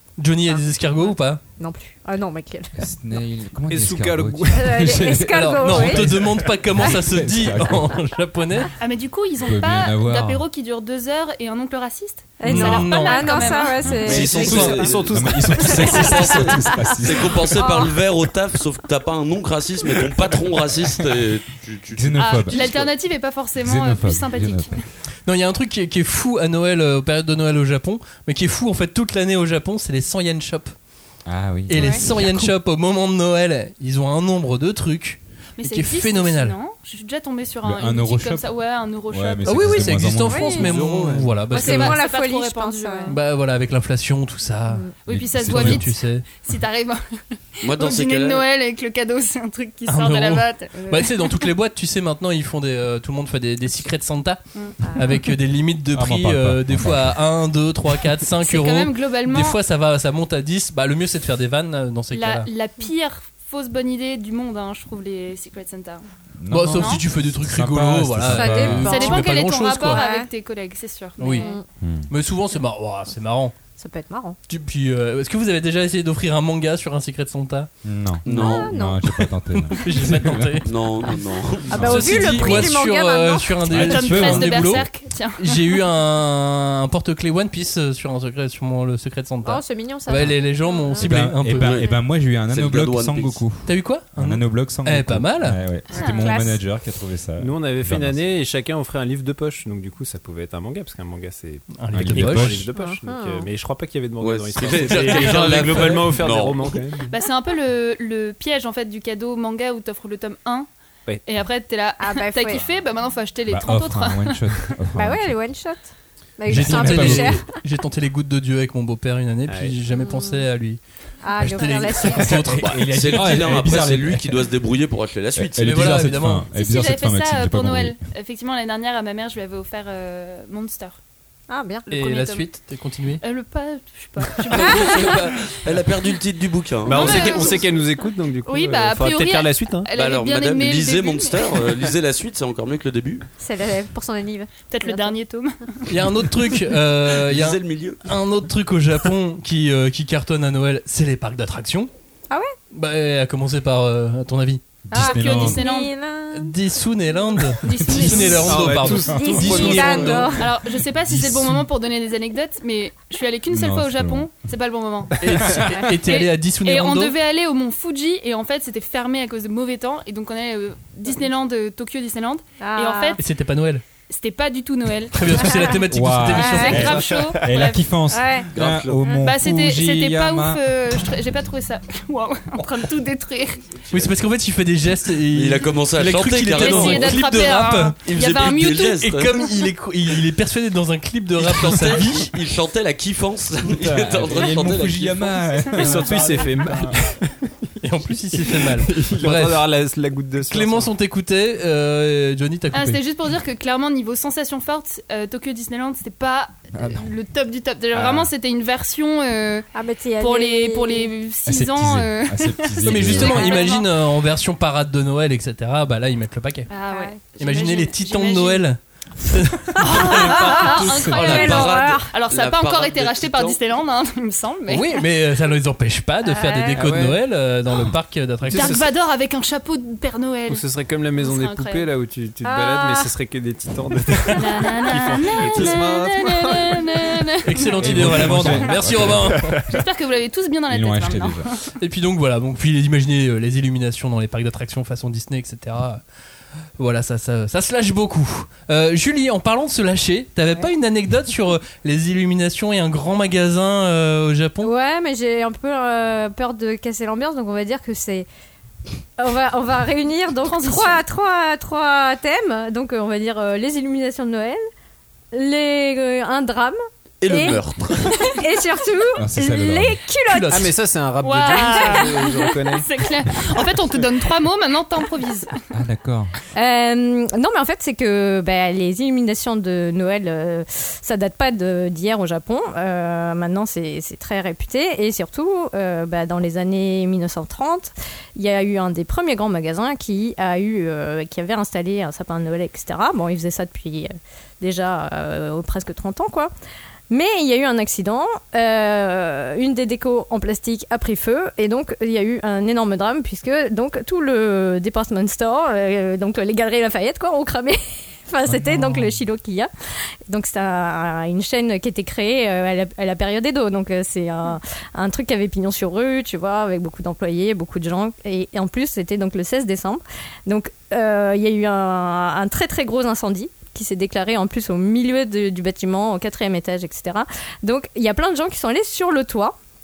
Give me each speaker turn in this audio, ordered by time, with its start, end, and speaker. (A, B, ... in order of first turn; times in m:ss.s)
0:00.2-0:01.4 A
0:01.6-0:02.8 B
0:02.8-0:08.0 C
0:03.7-0:04.9 D
0:04.5-0:06.0 B
0:05.3-0:08.7 A
0:08.8-0:13.8 E
0:09.4-0:10.4 C
0:12.4-0:14.8 B
0:12.4-0:13.3 A
0:12.5-0:12.8 C
0:13.8-0:14.2 C
0:14.0-0:16.3 D
0:14.1-0:22.9 F
0:14.2-0:14.8 A
0:15.1-0:17.6 C
0:15.6-0:16.8 B
0:17.6-0:17.9 B
0:21.9-0:22.7 C
0:22.2-0:24.9 E
0:23.6-0:24.8 C
0:25.2-0:30.7 A
0:31.2-0:32.5 C
0:31.7-0:36.6 A
0:31.7-0:32.0 B
0:35.6-0:40.2 E
0:37.6-0:38.5 C
0:39.1-0:41.4 C
0:39.4-0:42.0 A
0:40.2-0:40.8 B
0:41.5-0:43.2 E
0:41.5-0:43.2 B
0:43.1-0:46.2 A
0:44.7-0:44.9 B
0:45.1-0:45.9 C
0:45.1-0:51.4 E
0:47.6-0:48.4 F
0:49.9-0:54.4 A
0:54.8-0:55.2 B
0:54.9-1:02.5 A
0:55.9-0:57.2 C
0:58.4-0:59.6 E
1:02.1-1:06.0 E
1:06.4-1:09.0 C
1:06.5-1:10.0 A
1:06.7-1:07.0 E
1:08.2-1:09.3 B
1:08.8-1:11.6 E
1:09.8-1:10.3 B
1:11.2-1:11.5 A
1:11.2-1:11.6 B
1:11.8-1:12.1 C
1:12.1-1:13.6 A
1:13.8-1:14.4 B
1:14.5-1:17.7 A
1:17.8-1:20.6 C
1:18.2-1:18.7 F
1:18.2-1:18.5 A
1:18.4-1:19.0 B
1:19.7-1:20.7 A
1:20.6-1:22.4 F
1:21.7-1:23.7 B
1:21.7-1:22.5 C
1:21.8-1:31.8 A
1:23.7-1:24.8 C
1:23.7-1:25.8 E
1:29.4-1:31.1 B
1:31.0-1:38.2 C
1:31.5-1:33.4 F
1:33.6-1:35.6 A
1:35.9-1:36.3 E
1:36.0-1:36.6 B
1:37.4-1:47.1 D
1:41.8-1:42.6 A
1:41.9-1:42.7 C
1:42.7-1:43.5 B
1:44.2-1:46.8 F
1:44.9-1:45.2 A
1:47.1-1:50.7 E
1:51.2-1:54.8 E
1:52.0-1:52.6 B
1:53.5-1:55.4 C
1:54.9-1:57.5 B
1:56.5-1:57.4 C
1:56.5-2:00.8 A
1:59.5-1:59.8 D
1:59.9-2:00.5 B
2:01.2-2:02.4 B
2:01.4-2:03.2 A
2:02.5-2:06.0 F
2:02.5-2:04.5 C
2:05.4-2:08.0 C
2:05.6-2:06.5 A
2:06.5-2:11.0 E
2:11.5-2:11.9 B
2:11.9-2:13.2 A
2:12.0-2:12.5 E
2:13.2-2:15.4 E
2:14.5-2:17.6 F
2:16.8-2:19.9 D
2:16.9-2:17.7 E
2:18.4-2:21.8 E
2:19.9-2:23.2 F
2:23.4-2:25.2 B
2:24.7-2:26.2 E
2:25.9-2:31.9 A
2:27.2-2:28.0 F
2:32.7-2:34.6 A
2:34.9-2:35.6 C
2:34.9-2:36.5 B
2:34.9-2:35.9 E
2:36.3-2:40.3 A
2:37.6-2:39.7 E
2:37.8-2:38.4 C
2:38.4-2:40.3 D
2:39.0-2:40.5 B
2:40.4-2:45.2 E
2:41.1-2:41.6 C
2:43.5-2:44.3 C
2:45.2-2:47.1 A
2:46.0-2:53.2 E
2:52.6-2:53.2 B
2:53.2-2:53.8 A
2:54.1-2:55.8 E
2:55.1-2:57.0 A
2:55.5-2:55.8 B
2:55.9-3:00.6 C
2:56.3-2:56.8 B
2:56.4-2:57.8 E
2:57.0-2:57.3 D
2:58.1-2:58.5 B
2:58.5-2:59.0 F
2:59.0-3:03.6 E
3:03.9-3:12.3 A
3:05.3-3:07.2 F
3:06.5-3:09.0 E
3:08.0-3:09.5 F
3:11.4-3:15.3 F
3:13.6-3:17.0 C
3:15.7-3:17.4 D
3:17.8-3:19.7 A
3:18.3-3:20.9 D
3:20.4-3:23.0 A
3:22.7-3:33.9 E
3:26.7-3:27.1 C
3:29.7-3:31.1 B
3:31.4-3:33.7 C
3:32.8-3:36.7 A
3:33.1-3:33.5 B
3:36.7-3:38.7 E
3:36.9-3:37.2 B
3:37.4-3:41.5 A
3:39.8-3:45.0 E
3:39.9-3:42.1 B
3:41.1-3:43.6 F
3:44.7-3:48.8 A
3:46.2-3:46.8 B
3:46.8-3:47.2 D
3:48.4-3:48.8 D
3:48.5-3:50.6 E
3:50.5-3:57.1 D
3:51.2-3:51.9 E
3:52.4-3:53.1 B
3:54.3-3:57.9 E
3:55.4-3:56.6 A
3:57.4-3:59.6 A
3:57.8-3:59.6 C
3:58.2-3:58.5 D
3:59.0-3:59.6 D
3:59.7-4:01.6 E
4:00.7-4:01.5 C
4:01.8-4:06.0 A
4:06.8-4:14.7 A
4:14.6-4:18.3 B
4:19.2-4:24.6 B
4:20.4-4:21.0 E
4:25.3-4:27.6 B
4:27.2-4:28.4 F
4:28.2-4:30.8 B
4:29.2-4:30.0 C
4:30.3-4:30.7 A
4:30.5-4:32.9 D
4:31.2-4:35.5 E
4:31.4-4:32.1 B
4:35.7-4:36.3 C
4:36.5-4:56.5 B
4:57.1-5:09.7 B
5:08.5-5:09.2 C
5:10.3-5:29.5 B